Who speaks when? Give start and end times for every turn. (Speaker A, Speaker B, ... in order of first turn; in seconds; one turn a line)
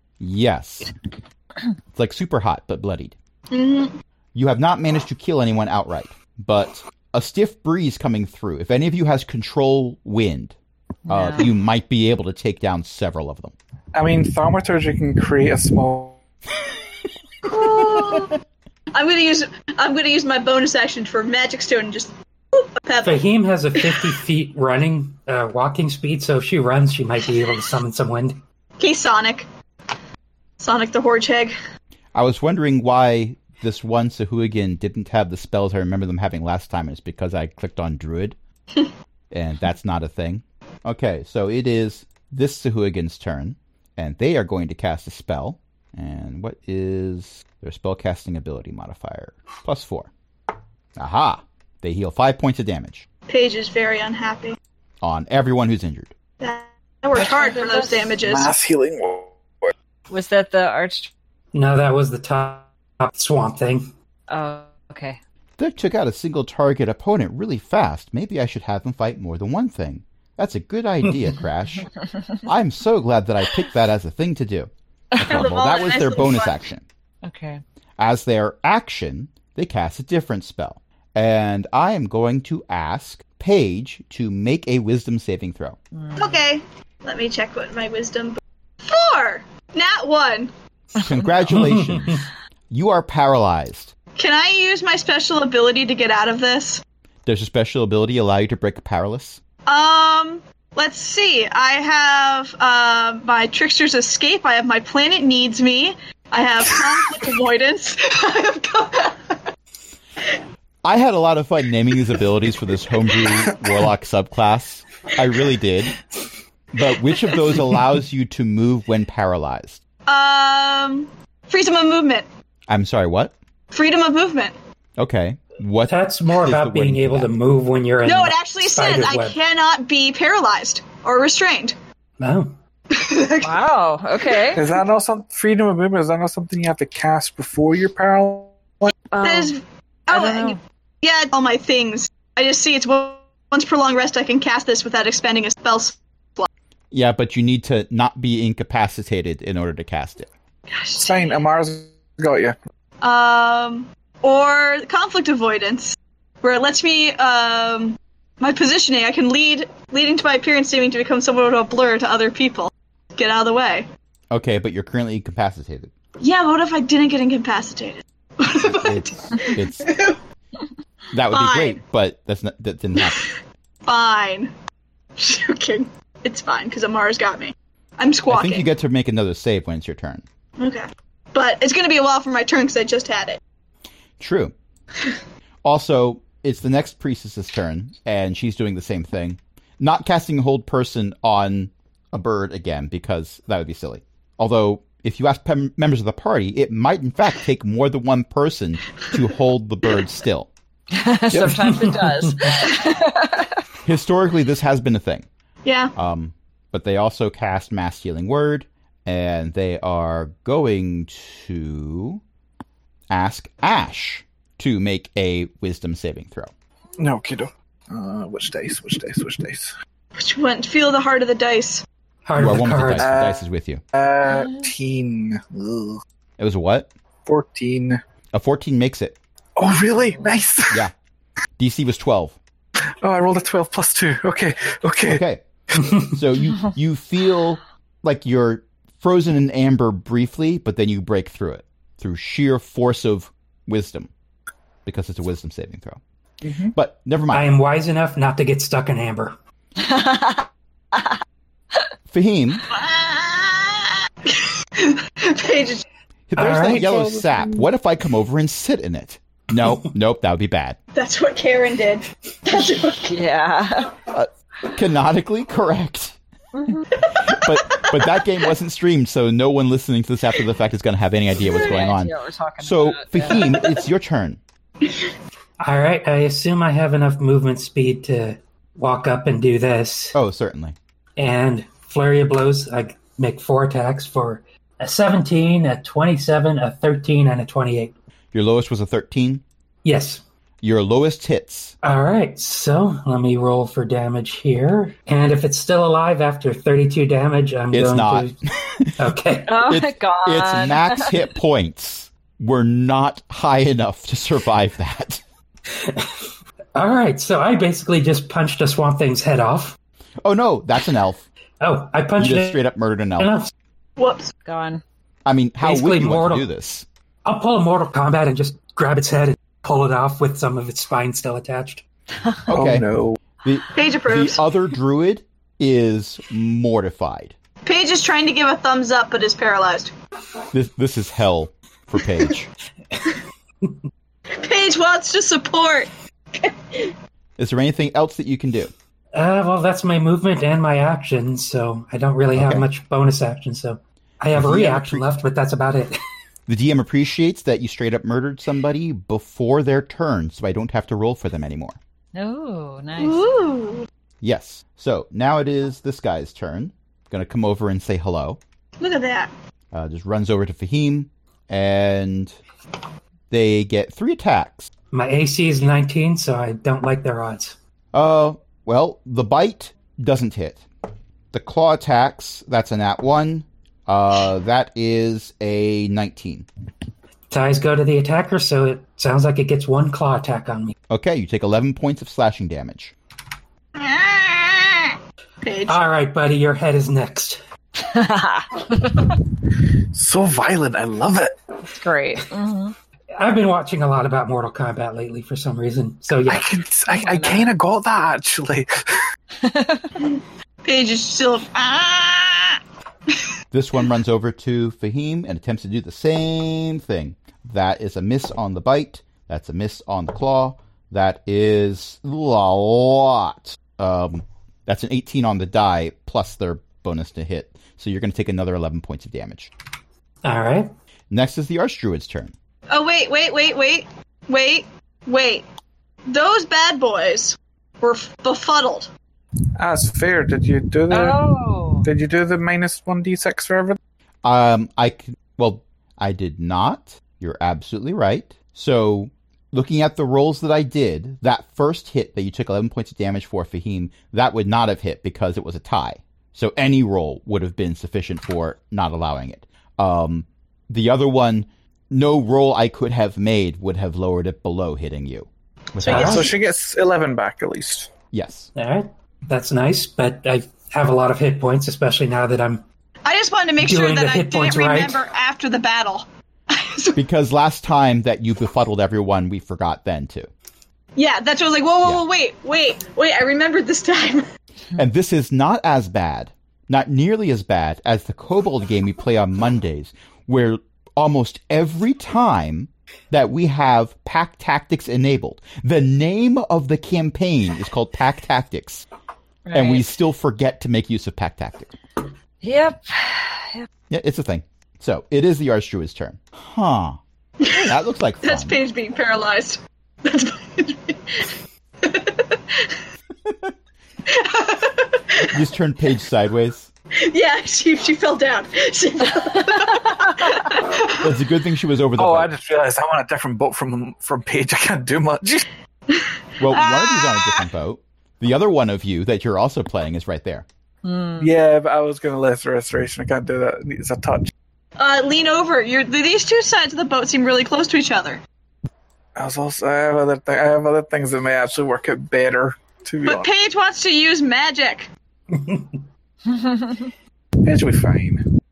Speaker A: 0.2-0.9
Speaker A: 1.9-3.2
Speaker B: 3.5-3.9
Speaker A: 4.3-10.6
Speaker C: 11.1-11.5
Speaker A: 11.1-13.5
Speaker D: 13.9-16.2
Speaker B: 17.4-18.4
Speaker B: 18.9-23.2
Speaker E: 23.0-28.4
Speaker B: 23.8-24.1
Speaker B: 28.8-29.5
Speaker B: 30.6-31.5
Speaker A: 32.1-38.4
Speaker A: 39.3-50.1
Speaker A: 51.0-53.1
Speaker B: 53.3-54.6
Speaker A: 55.0-56.1
Speaker B: 56.4-58.5
Speaker C: 57.1-58.1
Speaker D: 58.2-59.7
Speaker C: 60.1-61.1
Speaker E: 61.5-63.9
Speaker C: 64.3-65.2
Speaker A: 65.6-71.9
Speaker A: 72.4-76.8
Speaker B: 75.2-76.6
Speaker C: 77.2-77.6
Speaker A: 78.0-85.8
Speaker C: 85.9-86.4
Speaker B: 86.2-90.5
Speaker A: 91.0-93.9
Speaker E: 91.5-92.2
Speaker B: 94.2-96.8
Speaker A: 97.3-99.4
Speaker B: 99.7-109.4
Speaker A: 110.8-116.0
Speaker A: 116.7-119.8
Speaker B: 120.1-122.3
Speaker A: 122.7-123.3
Speaker B: 123.7-124.5
Speaker A: 125.0-127.3
Speaker E: 125.9-129.4
Speaker B: 128.0-131.8
Speaker E: 132.2-132.5
Speaker B: 132.9-133.6
Speaker C: 133.4-134.6
Speaker D: 134.5-138.9
Speaker C: 139.1-139.6
Speaker B: 139.2-146.5
Speaker C: 140.1-140.6
Speaker A: 146.9-150.3
Speaker B: 150.7-151.4
Speaker D: 151.0-152.6
Speaker B: 153.0-163.9
Speaker A: 164.3-165.9
Speaker B: 166.2-170.2
Speaker A: 168.6-169.9
Speaker A: 171.1-173.3
Speaker B: 171.3-171.8
Speaker B: 173.0-173.3
Speaker B: 173.9-174.5
Speaker B: 175.2-178.7
Speaker A: 178.3-180.2
Speaker B: 180.6-183.4
Speaker A: 184.2-184.5
Speaker A: 185.6-200.5
Speaker C: 200.9-203.5
Speaker E: 201.3-202.6
Speaker A: 203.8-205.3
Speaker B: 205.7-205.9
Speaker A: 206.0-212.2
Speaker A: 213.1-216.5
Speaker D: 217.0-219.7
Speaker B: 220.2-221.8
Speaker E: 222.2-223.1
Speaker A: 222.4-223.8
Speaker D: 222.9-226.0
Speaker A: 226.4-226.9
Speaker D: 227.3-228.0
Speaker A: 228.3-229.2
Speaker D: 229.6-230.9
Speaker A: 231.6-232.4
Speaker D: 233.0-235.9
Speaker A: 235.1-235.4
Speaker A: 236.0-244.1
Speaker A: 244.8-246.0
Speaker D: 246.4-246.7
Speaker A: 246.7-247.5
Speaker E: 247.3-249.3
Speaker C: 249.8-251.1
Speaker A: 252.1-252.7
Speaker B: 252.7-255.8
Speaker A: 256.3-260.8
Speaker E: 256.4-257.0
Speaker D: 256.4-257.7
Speaker B: 260.9-263.1
Speaker C: 263.0-263.9
Speaker A: 264.1-266.2
Speaker C: 266.5-266.9
Speaker A: 267.2-274.4
Speaker B: 267.3-267.9
Speaker C: 271.4-273.5
Speaker E: 275.6-280.2
Speaker A: 280.1-280.8
Speaker E: 281.2-287.9
Speaker A: 288.3-289.4
Speaker E: 289.9-290.2
Speaker A: 290.6-291.8
Speaker E: 291.8-298.4
Speaker A: 297.7-299.1
Speaker E: 299.0-299.6
Speaker C: 299.4-301.2
Speaker A: 299.6-305.2
Speaker E: 305.7-309.8
Speaker A: 310.2-311.3
Speaker E: 311.6-312.6
Speaker A: 312.2-313.3
Speaker E: 313.2-313.5
Speaker B: 314.0-314.3
Speaker C: 314.5-314.8
Speaker A: 315.3-316.9
Speaker E: 315.6-316.5
Speaker E: 317.2-321.8
Speaker A: 322.5-322.9
Speaker D: 322.5-323.2
Speaker A: 323.4-327.4
Speaker B: 323.8-324.4
Speaker B: 327.6-329.9
Speaker A: 330.5-332.5
Speaker B: 334.4-336.9
Speaker A: 337.4-338.7
Speaker E: 339.1-346.0
Speaker A: 342.4-342.7
Speaker A: 344.3-345.1
Speaker A: 346.5-351.8
Speaker C: 352.1-353.3
Speaker B: 353.0-353.9
Speaker A: 354.2-358.4
Speaker B: 358.8-359.3
Speaker A: 359.7-362.4
Speaker A: 363.3-364.7
Speaker E: 364.9-367.6
Speaker A: 367.9-370.6
Speaker A: 371.3-376.5
Speaker E: 377.3-380.7
Speaker A: 380.9-382.9
Speaker B: 383.8-385.8
Speaker E: 385.7-387.4
Speaker C: 387.8-389.1
Speaker D: 389.9-391.3
Speaker C: 391.7-392.7
Speaker E: 393.1-396.5
Speaker D: 396.3-399.0
Speaker C: 396.9-397.5
Speaker C: 399.4-399.9
Speaker B: 400.0-402.6
Speaker A: 403.5-419.5
Speaker E: 420.2-420.7
Speaker A: 421.1-422.3
Speaker B: 422.7-425.4
Speaker B: 426.1-428.9
Speaker D: 429.6-431.2
Speaker C: 430.9-431.9
Speaker D: 431.8-433.8
Speaker A: 434.2-456.4
Speaker D: 455.9-457.9
Speaker E: 455.9-456.3
Speaker A: 458.1-458.5
Speaker E: 458.6-462.6
Speaker B: 463.1-467.0
Speaker E: 463.6-465.0
Speaker A: 467.0-470.3
Speaker B: 471.0-474.3
Speaker A: 474.8-488.9
Speaker C: 489.5-489.9
Speaker A: 489.5-491.7
Speaker C: 492.4-493.7
Speaker A: 493.9-498.6
Speaker B: 497.4-502.8
Speaker A: 503.3-503.5
Speaker B: 504.1-505.4
Speaker A: 505.3-506.7
Speaker B: 507.0-511.1
Speaker A: 511.0-512.3
Speaker D: 512.0-515.5
Speaker B: 515.9-517.4
Speaker A: 516.4-520.5
Speaker C: 520.8-521.3
Speaker D: 521.2-524.3
Speaker B: 524.8-528.2
Speaker D: 529.2-533.3
Speaker B: 533.0-534.9
Speaker E: 535.3-535.8
Speaker C: 536.3-536.9
Speaker D: 537.4-538.2